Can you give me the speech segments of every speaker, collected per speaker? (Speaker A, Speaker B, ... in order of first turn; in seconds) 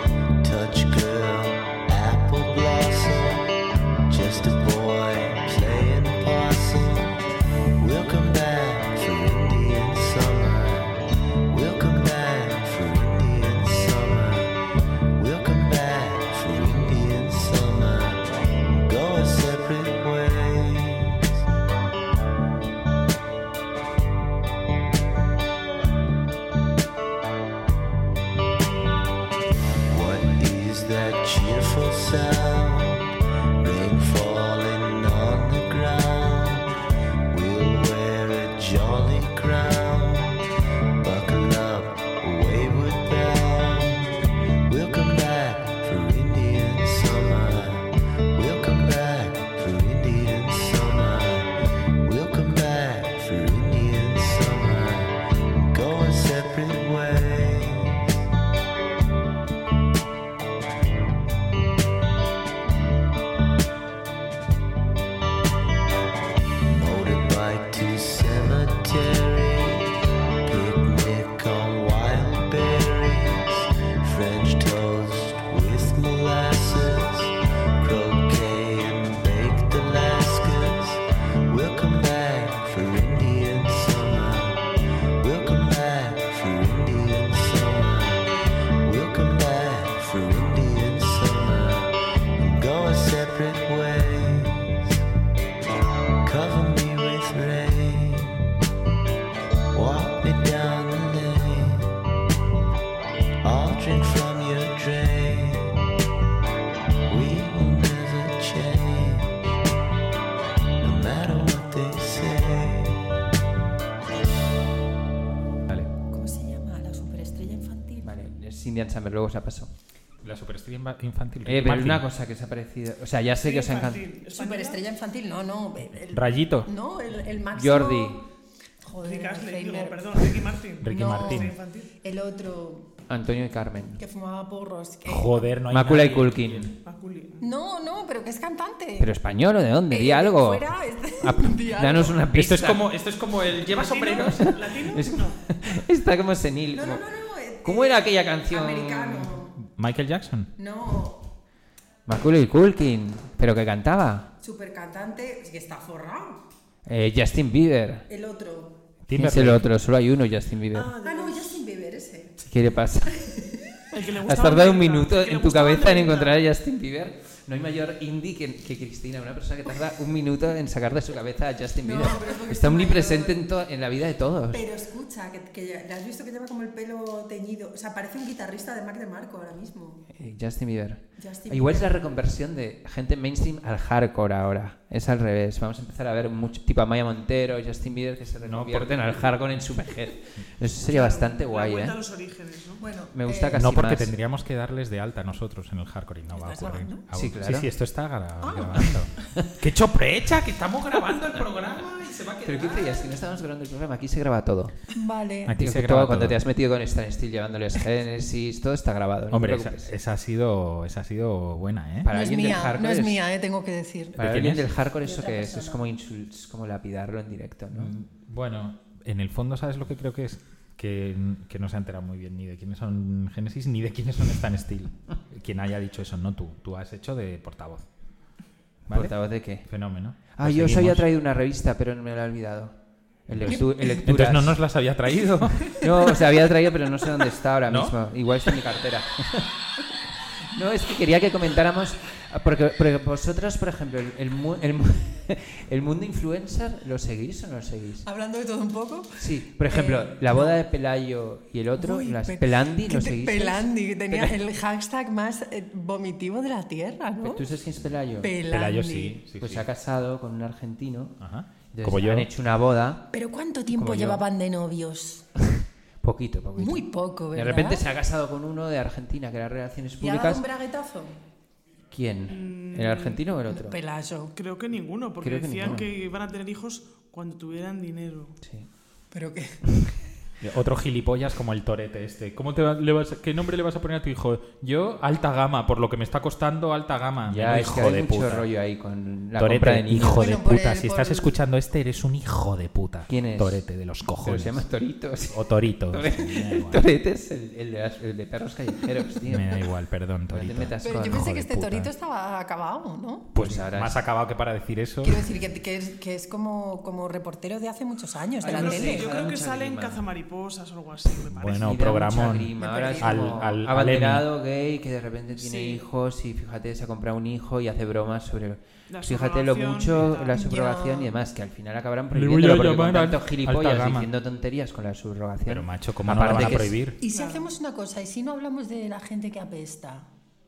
Speaker A: 0.4-3.5, 4.1-7.1, 7.8-14.6, 15.1-21.2, 29.9-33.1, 33.6-36.7, 37.3-40.4, 41.0-58.1, 66.7-84.7, 85.2-95.0, 96.2-98.4, 99.7-101.9, 103.4-105.8, 107.1-109.5, 110.8-113.0
Speaker B: 116.1-118.1, 124.3-128.2, 128.8-132.9, 134.0-135.5, 137.4-139.1, 139.9-142.2, 146.7-149.5, 150.6-151.2, 154.4-156.4, 158.1-158.8, 161.0-162.4, 163.1-163.8, 171.8-173.4, 174.5-180.1, 181.2-181.9, 192.8-193.6, 196.3-197.0, 198.4-198.8, 204.9-205.5, 212.1-214.2, 215.0-215.8, 248.0-250.6, 251.8-257.4, 258.2-259.2, 263.1-265.2, 266.6-267.8, 270.0-271.2, 273.5-274.3, 279.1-279.6, 290.1-291.3, 300.8-303.3, 305.0-309.1, 312.6-313.4, 320.3-321.1, 326.3-330.1
Speaker C: 118.0-119.7, 121.5-124.1, 127.5-128.2, 133.1-134.0, 135.7-136.7, 139.0-142.8, 144.3-147.0, 147.6-149.4, 152.1-154.3, 156.8-158.1, 159.1-160.9, 162.5-163.2, 164.2-174.6, 180.1-192.0, 193.1-194.1, 197.1-197.7, 202.4-204.9, 205.6-209.9, 212.0-213.2, 214.2-217.9, 228.9-229.7, 230.3-232.7, 233.3-234.6, 235.7-239.5, 240.5-248.1, 249.2-254.3, 257.2-258.3, 259.4-263.1, 263.7-264.2, 266.0-270.4, 271.9-273.8, 275.2-275.9, 278.4-278.7, 287.3-290.2, 293.1-293.6, 294.2-299.6, 300.3-301.2, 303.4-304.0, 308.4-310.1, 311.6-326.8
Speaker D: 120.2-122.0, 126.1-126.7, 130.8-131.5, 135.1-136.7, 142.3-144.5, 149.6-150.5, 159.1-159.6, 188.4-189.4, 193.6-203.1, 205.5-206.4, 209.3-212.1, 214.2-214.6, 217.7-227.8, 228.9-231.0, 233.3-235.9, 237.7-237.9, 258.5-259.6, 261.2-262.3, 280.4-288.5, 289.4-294.6, 295.3-296.8, 299.3-301.9, 303.3-305.2, 311.3-314.3, 322.1-324.1, 325.4-327.0
Speaker E: 123.4-124.8, 129.0-131.9, 136.8-137.4, 143.7-145.4, 160.7-161.5, 163.9-166.3, 190.9-192.8, 272.3-273.2, 274.3-278.4, 308.4-311.9, 315.4-315.8, 318.9-320.4, 327.0-327.5